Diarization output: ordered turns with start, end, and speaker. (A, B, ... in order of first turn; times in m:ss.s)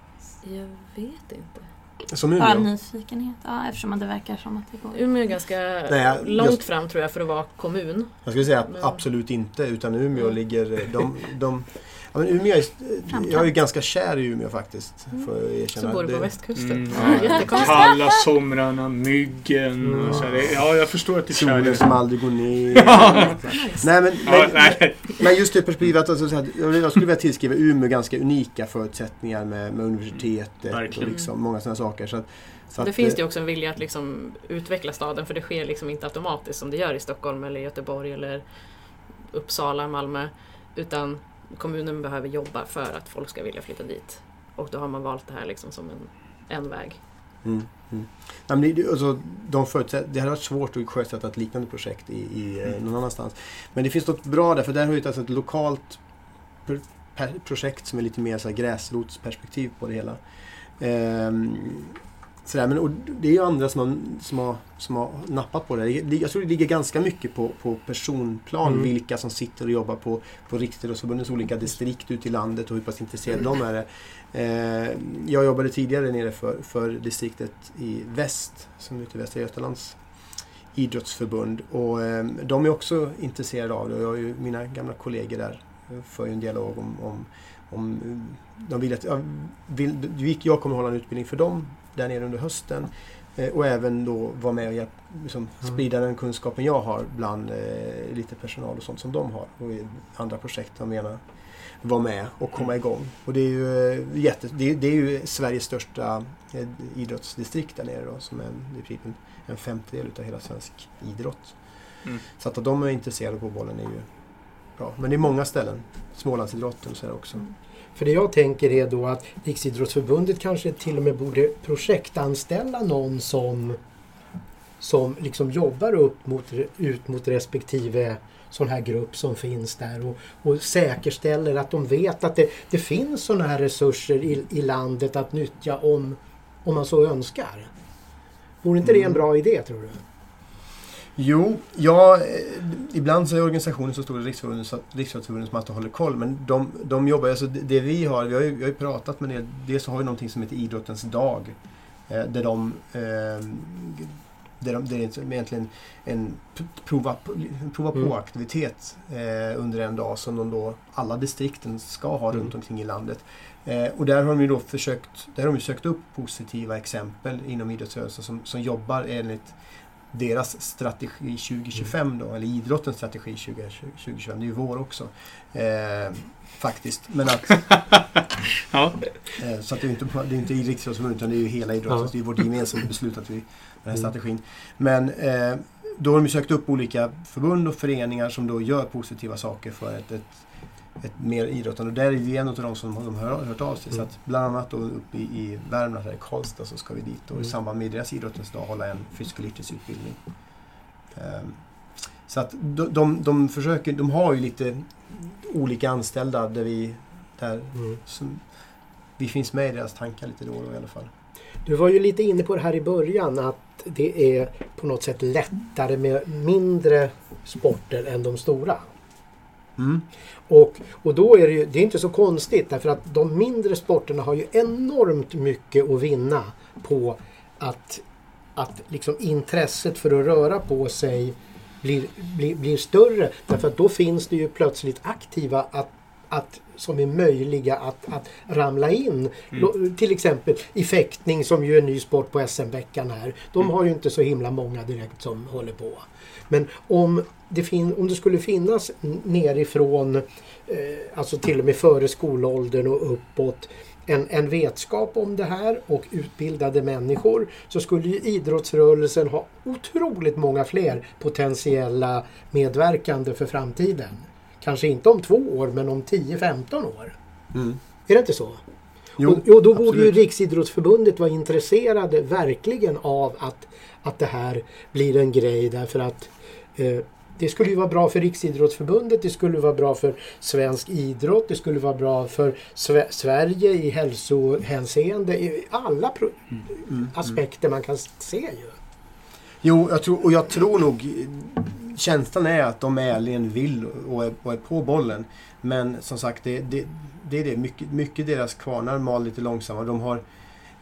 0:00.4-0:01.7 A
0:02.1-0:02.7 B
0:02.4-0:05.0 C
0:04.9-0:09.0 A
0:05.9-0:06.6 B
0:08.2-0:17.5 B
0:13.1-0:13.5 C
0:15.7-0:18.0 A
0:16.6-0:23.4 D
0:17.4-0:18.0 C
0:19.8-0:20.2 E
0:20.0-0:33.2 B
0:23.4-0:23.9 A
0:24.2-0:25.2 D
0:30.7-0:31.1 D
0:31.0-0:31.3 A
0:32.8-0:38.4 A
0:39.1-0:47.0 A
0:47.4-0:56.0 B
0:56.6-1:00.2 B
1:00.8-1:20.0 B
1:20.7-1:41.3 B
1:41.8-1:51.6 B
1:52.3-1:54.1 B
1:54.8-1:57.4 B
1:58.0-2:03.8 E
2:04.8-2:17.7 E
2:18.6-2:20.0 E
2:18.8-2:19.2 B
2:21.2-2:31.6 B
2:32.1-2:49.6 B
2:50.1-2:57.7 B
2:58.7-2:59.3 D
2:59.4-3:28.5 B
3:29.2-3:31.1 B
3:31.6-3:38.9 E
3:39.8-3:40.1 B
3:40.5-3:48.0 E
3:48.6-4:27.2 E
4:27.5-4:27.8 B
4:28.1-4:28.6 E
4:29.2-4:48.8 E
4:29.2-4:30.1 B
4:46.9-4:47.3 B
4:49.6-5:00.2 B